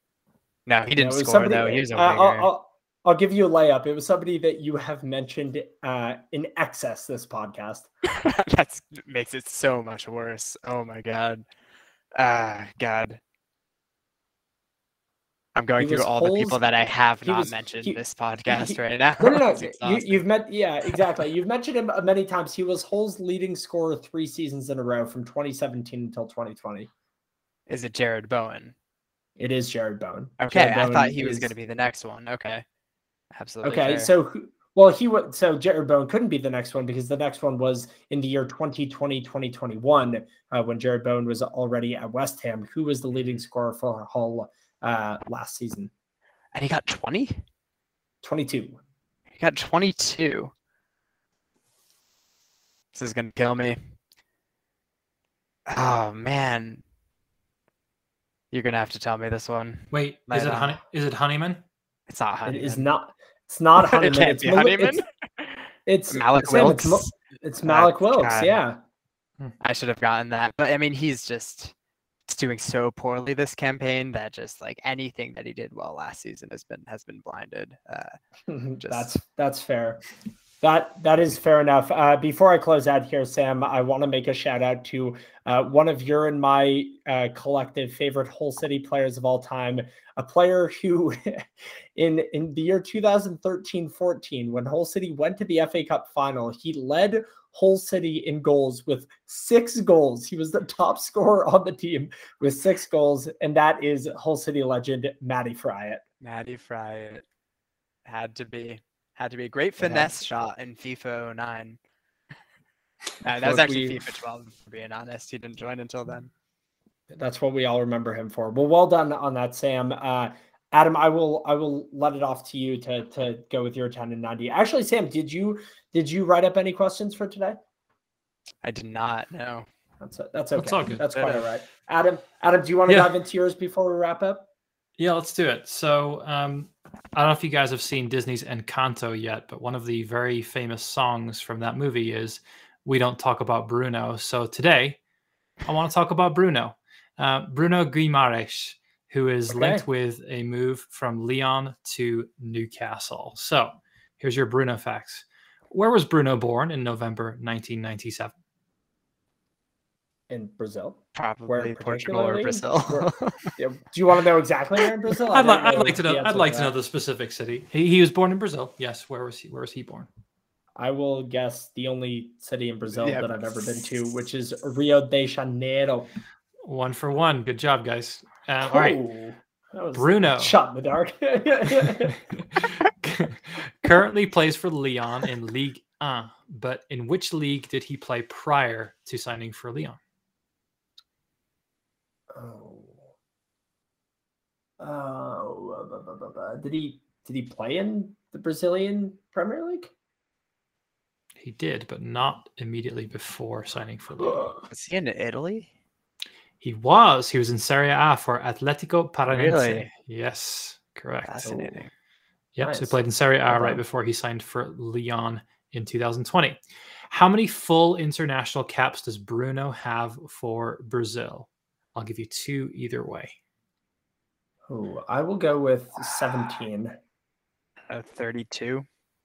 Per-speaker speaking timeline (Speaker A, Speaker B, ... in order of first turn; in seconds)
Speaker A: 0.7-2.5, 8.1-11.4, 12.2-13.2, 15.5-20.2, 27.7-28.7, 30.4-32.6, 33.3-34.1, 46.5-47.4, 49.4-50.5, 52.9-53.8, 55.7-56.8, 58.5-60.8, 62.1-62.8, 63.8-67.1, 67.6-68.6, 69.6-71.7, 72.3-78.1, 78.8-79.2, 106.2-107.2, 108.0-111.8, 113.2-116.3, 128.6-129.7, 131.1-131.4, 161.1-163.5, 173.0-173.3, 204.7-205.7, 209.2-209.9, 211.2-211.9, 227.9-228.9
Speaker B: 0.9-7.9, 15.8-16.6, 17.2-26.9, 29.4-31.5, 33.6-45.9, 48.2-48.8, 62.5-65.0, 65.8-68.8, 78.5-80.0, 80.6-91.4, 92.0-106.0, 109.8-110.1, 113.4-114.0, 117.1-127.6, 130.0-134.5, 149.5-149.8, 160.3-166.7, 170.8-176.1, 178.6-182.2, 192.3-193.1, 194.8-199.9, 204.2-204.7, 211.4-211.8, 212.6-213.8, 224.7-227.0
Speaker C: 59.9-61.6, 130.6-131.1, 135.0-145.0, 145.6-158.3, 165.3-170.1, 176.6-179.0, 179.9-180.5, 182.6-190.0, 201.4-204.5, 206.6-211.4, 212.6-223.3